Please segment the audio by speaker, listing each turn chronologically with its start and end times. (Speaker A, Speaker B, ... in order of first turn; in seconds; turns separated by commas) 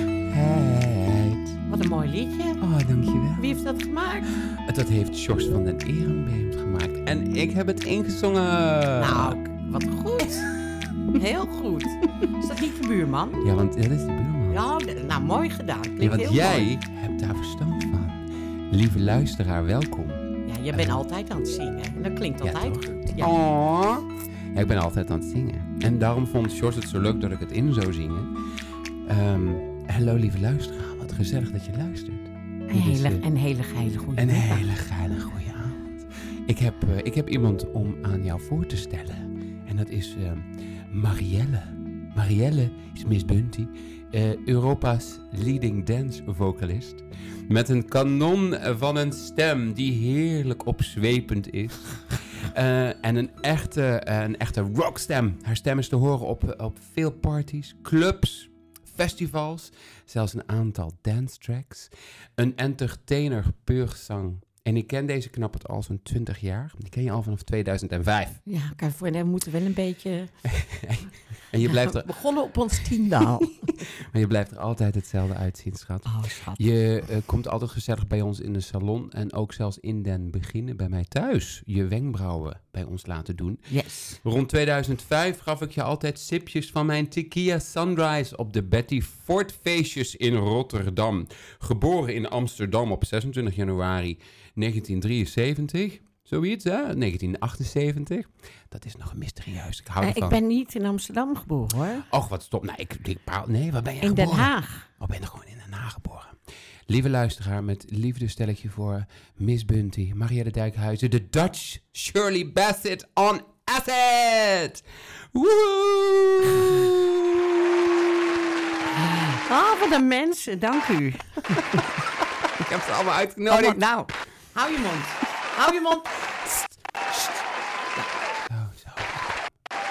Speaker A: 0.2-1.6, Speaker B: 1.7-2.6, Speaker A: 2.6-3.6, Speaker B: 3.4-4.3, Speaker A: 4.3-9.4, Speaker B: 9.0-10.5, Speaker B: 11.1-13.5, Speaker A: 13.4-14.6, Speaker B: 14.5-16.7, Speaker A: 16.0-21.0, Speaker B: 20.5-23.3, Speaker A: 22.4-28.3, Speaker A: 29.0-33.2, Speaker B: 32.7-34.7, Speaker A: 34.1-68.4, Speaker B: 68.5-70.3, Speaker A: 70.4-83.7, Speaker B: 71.6-73.7, Speaker B: 76.0-76.6, Speaker B: 83.7-84.2, Speaker A: 84.2-100.4, Speaker B: 100.0-102.0, Speaker A: 102.0-118.1, Speaker B: 104.0-104.9, Speaker B: 118.9-121.9, Speaker A: 121.6-123.8, Speaker B: 123.5-126.2, Speaker B: 127.1-127.4, Speaker A: 128.5-129.4